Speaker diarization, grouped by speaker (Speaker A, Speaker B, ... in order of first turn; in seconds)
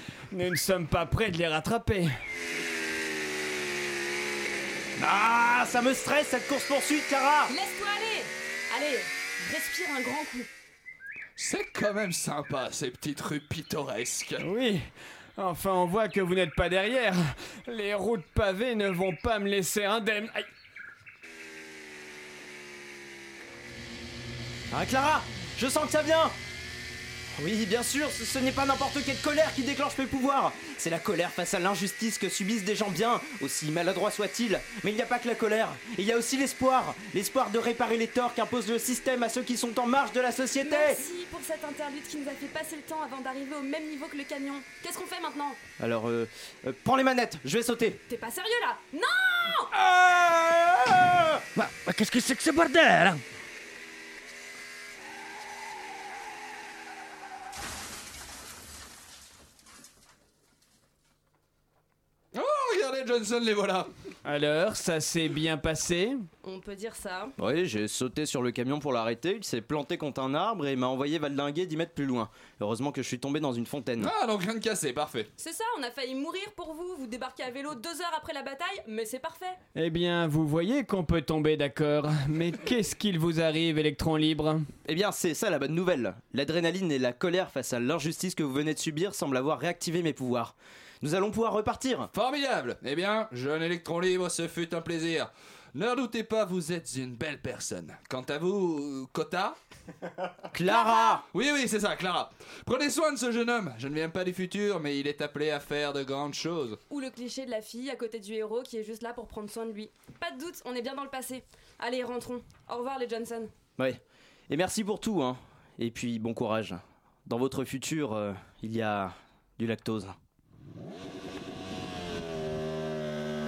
Speaker A: 0.3-2.1, 14.4-14.8, 15.4-20.5, 64.2-66.2, 79.7-84.6
Speaker B: 5.0-7.5, 24.7-26.3, 27.4-41.0, 45.8-48.0, 67.4-74.1, 84.8-92.1, 100.5-101.2, 113.8-120.1
Speaker C: 7.5-10.5, 40.6-45.6, 48.1-49.7, 66.4-67.3, 75.4-79.6, 100.7-101.2, 106.9-113.5
Speaker D: 11.4-14.4, 62.3-63.9, 74.0-75.3, 92.1-99.6, 101.3-106.8
Speaker E: 49.9-53.2